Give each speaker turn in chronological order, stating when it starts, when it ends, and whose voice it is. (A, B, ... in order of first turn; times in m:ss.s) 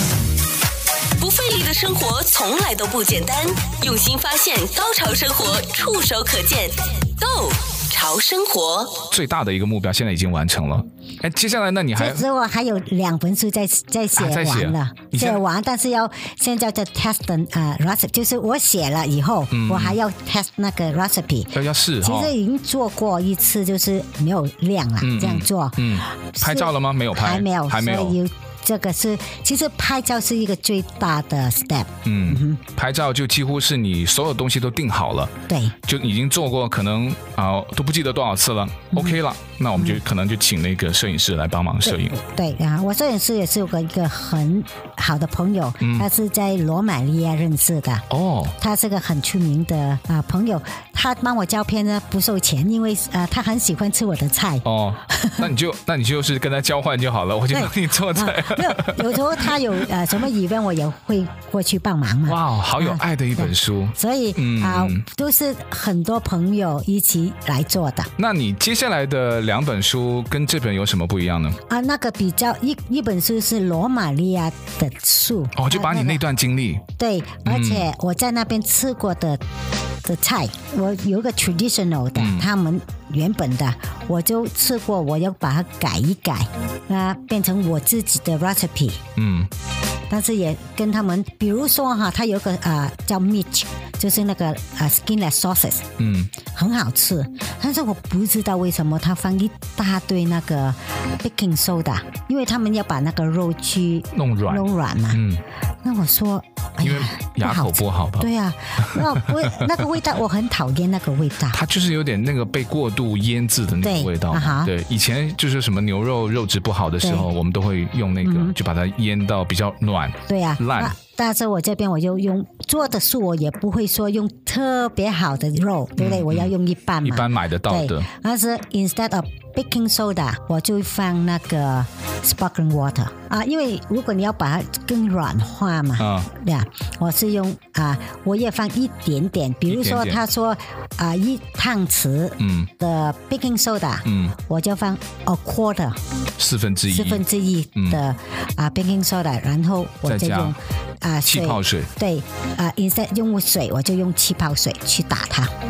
0:01.2-0:09.0 A
0:09.1-0:12.2 B
0:12.0-0:32.6 C
0:14.1-0:15.4 B
0:19.5-0:20.0 B
0:21.5-0:22.3 B
0:25.0-0:28.2 B
0:32.0-0:42.2 B
0:35.5-0:35.7 C
0:38.9-0:39.2 C
0:41.8-0:48.1 C
0:45.8-0:46.1 B
0:48.1-0:48.5 B
0:48.6-0:55.5 C
0:54.6-0:59.8 B
0:57.5-1:08.1 C
1:02.2-1:05.0 B
1:08.2-1:11.6 B
1:11.7-1:16.2 C
1:15.6-1:16.8 B
1:17.0-1:19.4 C
1:17.4-1:17.9 B
1:20.0-1:29.0 C
1:22.1-1:22.5 B
1:29.2-1:29.5 B
1:30.1-1:35.9 C
1:36.0-1:36.3 B
1:36.5-1:45.2 C
1:44.1-1:45.4 B
1:45.8-1:51.6 C
1:46.8-1:49.8 B
1:51.5-2:00.9 B
1:53.8-1:54.7 C
1:57.0-1:57.3 C
1:58.2-1:58.6 C
2:00.3-2:26.0 C
2:06.0-2:08.1 B
2:16.0-2:16.3 B
2:19.7-2:20.2 B
2:22.4-2:22.7 B
2:24.0-2:24.3 B
2:26.4-2:27.2 B
2:26.9-2:35.5 C
2:27.8-2:28.0 B
2:30.0-2:30.6 B
2:31.2-2:31.9 B